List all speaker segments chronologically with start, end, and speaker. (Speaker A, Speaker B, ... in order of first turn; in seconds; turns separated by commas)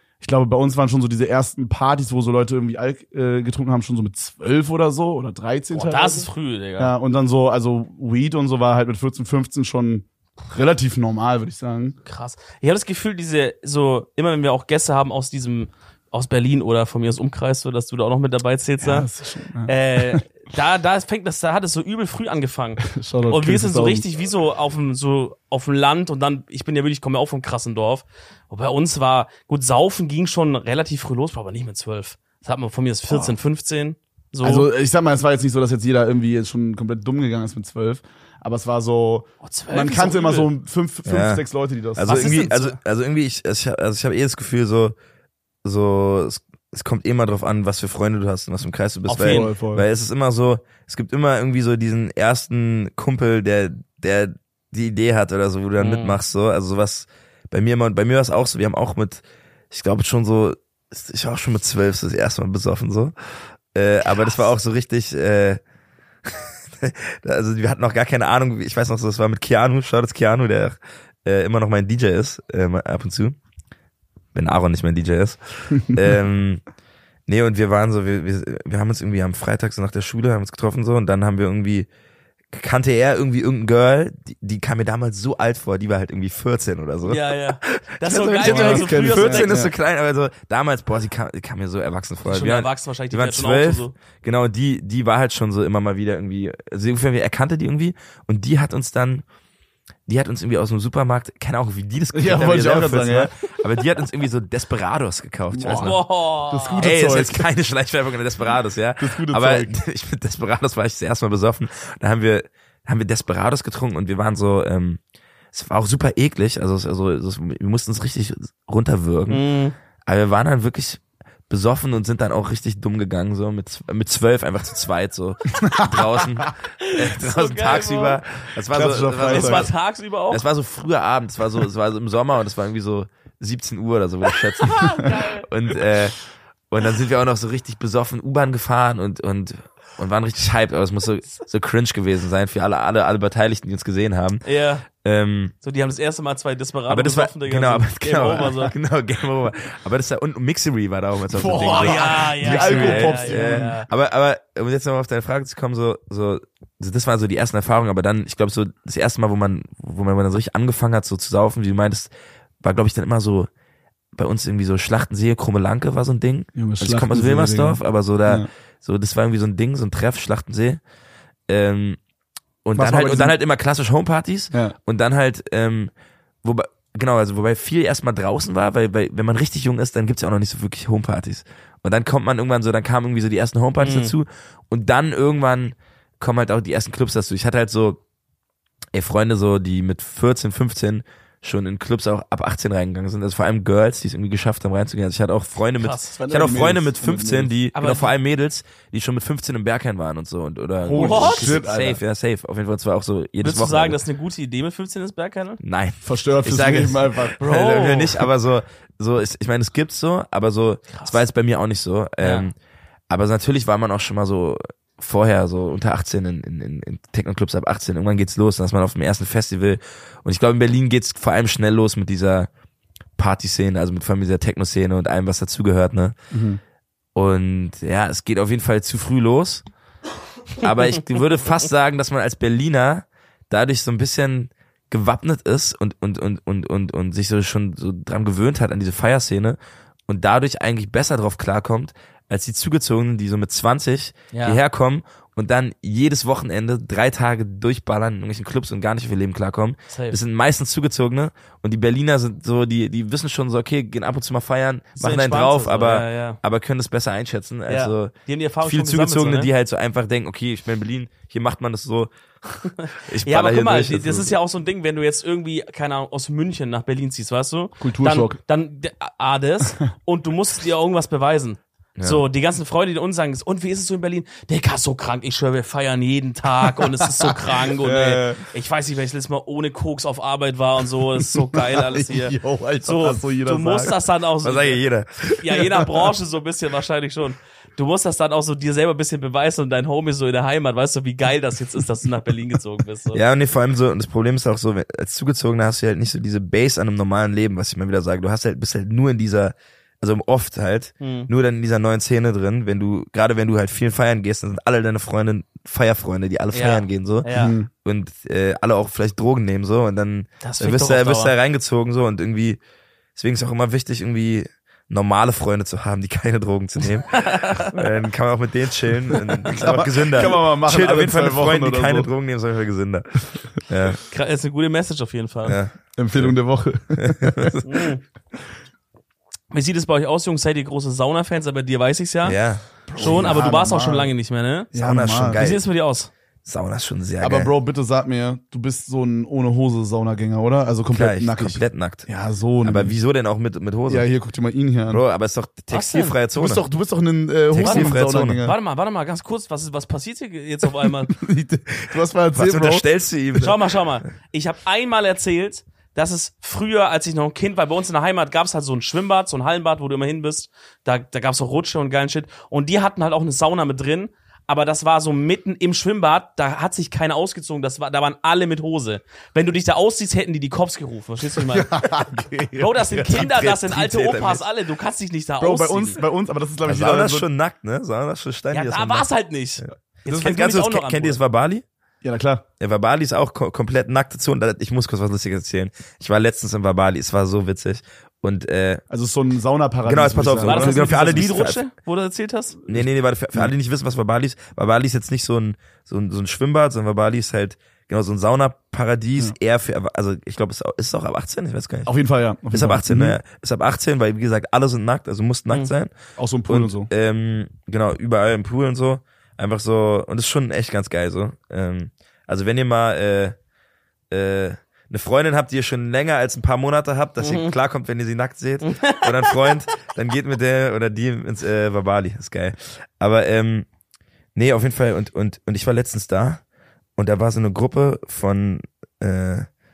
Speaker A: 0.2-11.9, Speaker B: 5.7-6.9, Speaker B: 12.0-19.1, Speaker A: 18.8-20.2, Speaker B: 19.6-34.7, Speaker A: 22.8-24.0, Speaker A: 34.4-42.6, Speaker B: 39.4-40.5, Speaker C: 41.0-41.4, Speaker C: 42.0-44.9, Speaker B: 42.1-42.7, Speaker C: 45.6-65.6, Speaker A: 49.1-49.8, Speaker B: 49.1-49.5, Speaker B: 55.8-56.1, Speaker C: 66.2-73.4, Speaker C: 74.3-76.6, Speaker C: 77.3-81.9, Speaker C: 82.5-99.2, Speaker B: 87.0-89.6, Speaker A: 88.4-89.7, Speaker B: 92.2-93.9, Speaker C: 100.1-106.0, Speaker A: 102.1-103.3, Speaker A: 105.5-107.5, Speaker B: 105.6-106.9, Speaker C: 106.8-115.0, Speaker A: 109.0-109.8, Speaker C: 115.5-119.5, Speaker B: 119.3-119.7, Speaker C: 120.0-129.7, Speaker A: 125.6-126.0, Speaker B: 126.8-128.2, Speaker A: 128.7-129.7, Speaker B: 129.2-130.4, Speaker C: 130.3-144.4, Speaker B: 134.6-135.5, Speaker B: 144.4-144.9, Speaker C: 144.9-145.5, Speaker B: 145.6-148.7, Speaker C: 146.9-163.5, Speaker A: 151.3-153.7, Speaker B: 151.5-153.9, Speaker C: 164.1-170.8, Speaker A: 166.5-168.5, Speaker C: 171.5-172.0, Speaker C: 172.6-175.9, Speaker A: 172.8-173.3, Speaker C: 176.4-188.0, Speaker B: 183.8-184.1, Speaker C: 188.9-204.0, Speaker B: 195.8-196.2, Speaker A: 196.1-197.6, Speaker B: 197.7-198.1, Speaker A: 200.8-202.0, Speaker B: 200.9-201.6, Speaker B: 203.4-205.6, Speaker C: 205.6-212.5, Speaker A: 206.0-207.4, Speaker B: 207.4-208.2, Speaker B: 212.2-212.4, Speaker C: 213.1-222.5, Speaker C: 223.2-226.1, Speaker A: 226.3-226.6, Speaker C: 227.1-229.6, Speaker C: 230.6-264.3, Speaker B: 244.3-244.6, Speaker B: 249.9-250.2, Speaker B: 255.0-256.4, Speaker B: 257.7-259.5, Speaker B: 262.8-284.8, Speaker A: 267.8-268.4, Speaker C: 272.0-272.2, Speaker A: 276.8-278.4, Speaker A: 281.2-283.9, Speaker C: 284.4-285.2, Speaker A: 285.3-286.1, Speaker B: 285.4-293.2, Speaker C: 293.1-312.6, Speaker B: 301.0-301.3, Speaker B: 306.5-307.5, Speaker A: 307.4-307.7, Speaker B: 310.4-311.3, Speaker C: 313.1-324.0, Speaker B: 317.1-317.9, Speaker A: 319.4-322.1, Speaker B: 324.1-325.6, Speaker C: 325.4-326.3, Speaker A: 326.0-327.6, Speaker C: 326.9-327.8, Speaker B: 327.6-328.0, Speaker B: 329.5-332.4, Speaker C: 332.2-333.4, Speaker A: 332.9-334.1, Speaker B: 332.9-334.7, Speaker A: 334.7-335.4, Speaker C: 334.7-335.6, Speaker B: 335.3-336.1, Speaker C: 336.4-337.5, Speaker A: 337.2-342.9, Speaker C: 340.9-342.1, Speaker C: 342.6-344.1, Speaker A: 343.9-345.0, Speaker C: 344.9-346.6, Speaker B: 345.7-346.1, Speaker A: 346.3-348.5, Speaker C: 347.5-348.4, Speaker B: 347.6-351.1, Speaker A: 351.1-352.8, Speaker C: 352.3-353.7, Speaker B: 353.4-371.8, Speaker A: 371.2-373.2, Speaker B: 372.6-376.0, Speaker C: 373.0-374.4, Speaker A: 375.4-377.3, Speaker C: 376.6-379.1, Speaker B: 378.5-381.2, Speaker C: 380.0-381.6, Speaker A: 382.0-382.4, Speaker C: 382.6-388.8, Speaker A: 388.9-391.3, Speaker C: 389.9-391.6, Speaker B: 390.4-392.6, Speaker C: 392.7-401.9, Speaker A: 392.7-393.5, Speaker A: 401.9-403.2, Speaker C: 402.5-405.9, Speaker A: 406.2-406.9, Speaker C: 406.5-413.4, Speaker C: 414.1-423.7, Speaker B: 417.2-417.5, Speaker B: 418.6-419.6, Speaker C: 424.3-426.4, Speaker C: 427.0-429.5